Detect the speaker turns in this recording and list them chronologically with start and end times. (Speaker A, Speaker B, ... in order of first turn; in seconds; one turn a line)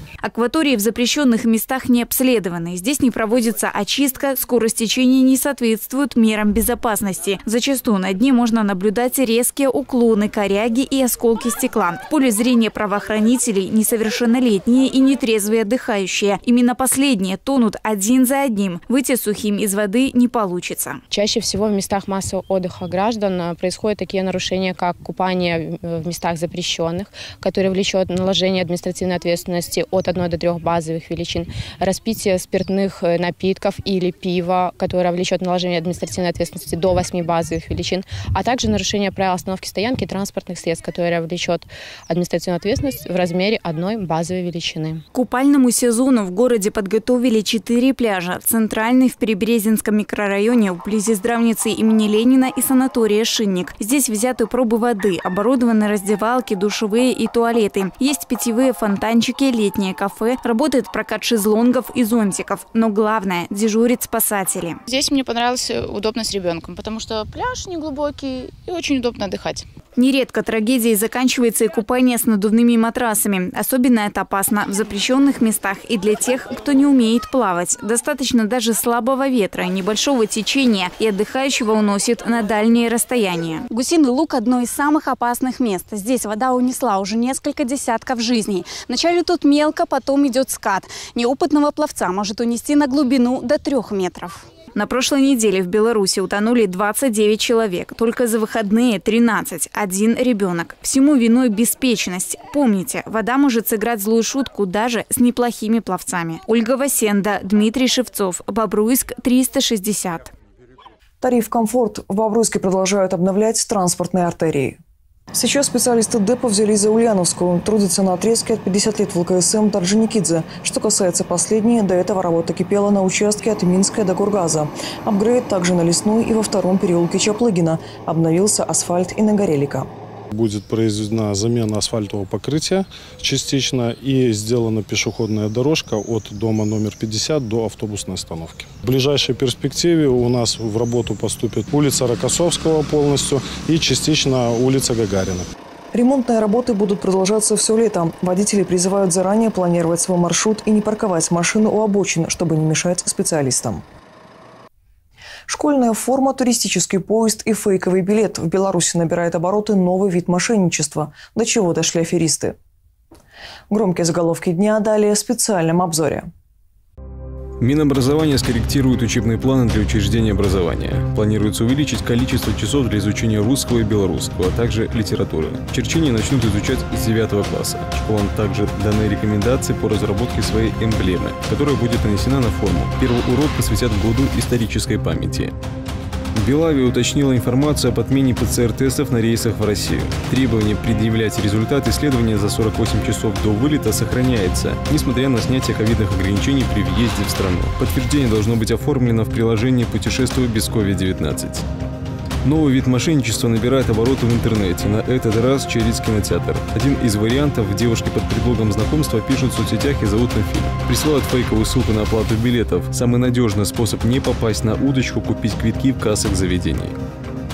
Speaker A: 0.2-21.0
Speaker B: 21.1-45.0
Speaker A: 45.1-64.8
Speaker C: 64.9-69.7
Speaker A: 70.0-110.3
Speaker D: 111.2-114.8
Speaker D: 115.3-129.9
Speaker E: 130.3-145.5
Speaker D: 145.9-153.8
Speaker D: 155.5-162.6
Speaker D: 163.7-166.3
Speaker F: 167.6-185.6
Speaker F: 186.3-201.7
Speaker F: 202.4-217.0